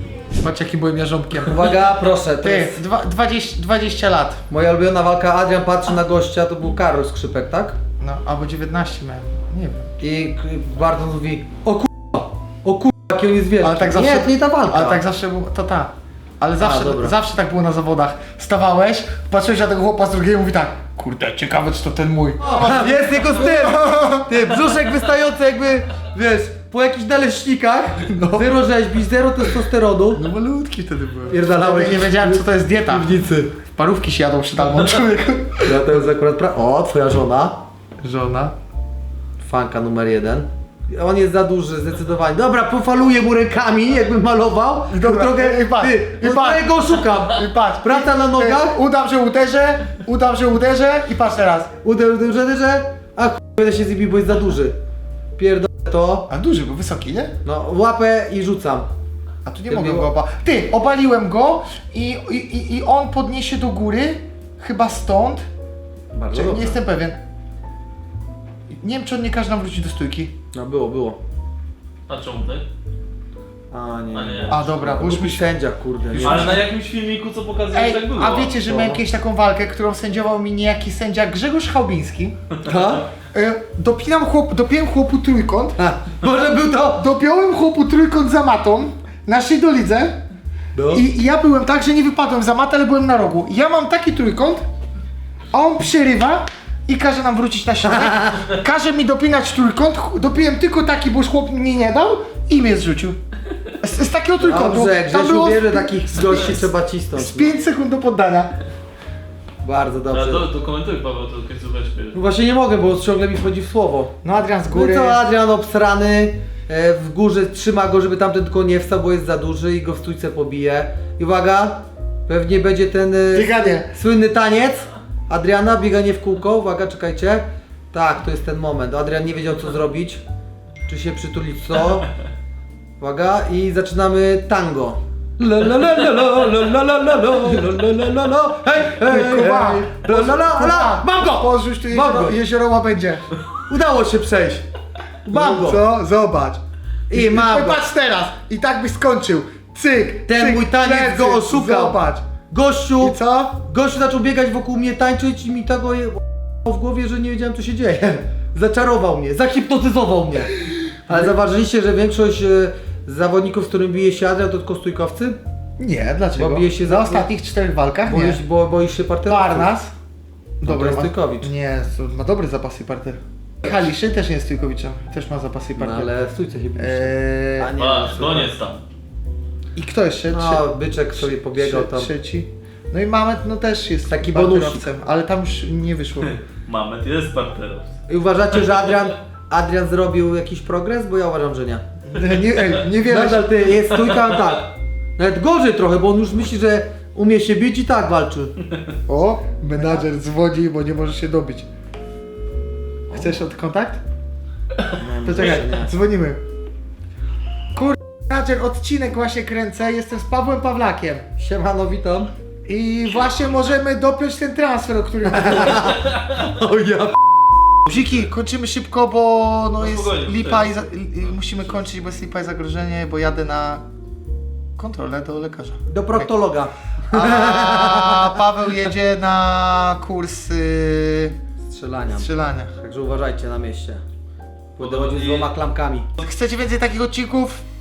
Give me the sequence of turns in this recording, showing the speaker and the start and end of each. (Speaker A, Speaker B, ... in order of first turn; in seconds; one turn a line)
Speaker A: 0.3-1.9
Speaker B: 1.4-2.8
Speaker A: 2.4-4.4
Speaker B: 4.5-7.8
Speaker A: 8.0-9.9
Speaker B: 10.0-15.0
Speaker A: 13.6-24.4
Speaker B: 16.6-17.1
Speaker B: 22.4-30.3
Speaker A: 28.1-28.6
Speaker A: 30.1-36.0
Speaker B: 31.3-33.5
Speaker B: 35.6-37.7
Speaker A: 38.0-38.5
Speaker B: 39.4-48.8
Speaker A: 44.9-51.7
Speaker B: 51.8-54.8
Speaker B: 55.4-56.3
Speaker A: 56.3-57.4
Speaker B: 57.4-58.9
Speaker A: 59.5-65.5
Speaker B: 59.7-60.1
Speaker B: 66.1-66.8
Speaker A: 66.3-67.2
Speaker A: 68.8-70.3
Speaker B: 70.5-71.2
Speaker C: 72.1-72.7
Speaker B: 73.7-76.6
Speaker C: 74.1-74.7
Speaker A: 74.5-75.5
Speaker A: 76.1-76.6
Speaker C: 76.2-78.5
Speaker A: 77.7-82.4
Speaker B: 78.6-79.0
Speaker B: 82.6-83.0
Speaker A: 83.3-85.8
Speaker B: 85.8-87.1
Speaker A: 87.0-90.2
Speaker B: 90.8-91.0
Speaker A: 90.9-94.7
Speaker A: 95.5-103.2
Speaker B: 98.1-98.4
Speaker A: 103.8-108.5
Speaker B: 104.4-107.5
Speaker B: 109.6-110.5
Speaker C: 110.1-112.2
Speaker B: 112.1-114.2
Speaker A: 114.2-115.2
Speaker B: 114.7-130.2
Speaker A: 123.3-123.9
Speaker B: 130.9-132.1
Speaker B: 133.0-142.4
Speaker A: 138.8-143.2
Speaker B: 143.7-144.7
Speaker A: 145.3-152.3
Speaker B: 145.3-145.8
Speaker B: 147.1-147.8
Speaker B: 150.3-165.4
Speaker A: 153.0-153.6
Speaker A: 165.8-168.4
Speaker B: 166.4-167.3
Speaker B: 168.1-169.7
Speaker A: 169.3-169.9
Speaker A: 170.6-176.1
Speaker B: 170.6-171.5
Speaker B: 175.8-178.5
Speaker A: 176.8-177.7
Speaker C: 177.8-178.8
Speaker A: 179.8-186.4
Speaker B: 180.3-182.1
Speaker B: 184.1-184.9
Speaker C: 186.7-188.0
Speaker B: 188.1-191.8
Speaker A: 192.1-193.7
Speaker B: 193.0-198.6
Speaker A: 199.1-201.7
Speaker A: 203.1-204.0
Speaker B: 204.9-205.9
Speaker A: 205.2-206.4
Speaker A: 207.7-211.3
Speaker B: 211.4-212.3
Speaker A: 212.7-216.0
Speaker B: 215.4-217.2
Speaker A: 217.8-223.8
Speaker C: 219.8-220.7
Speaker A: 224.8-226.3
Speaker B: 225.9-228.4
Speaker A: 227.1-231.4
Speaker B: 231.6-234.0
Speaker A: 232.1-232.7
Speaker B: 234.8-236.1
Speaker C: 234.8-235.5
Speaker A: 236.2-237.7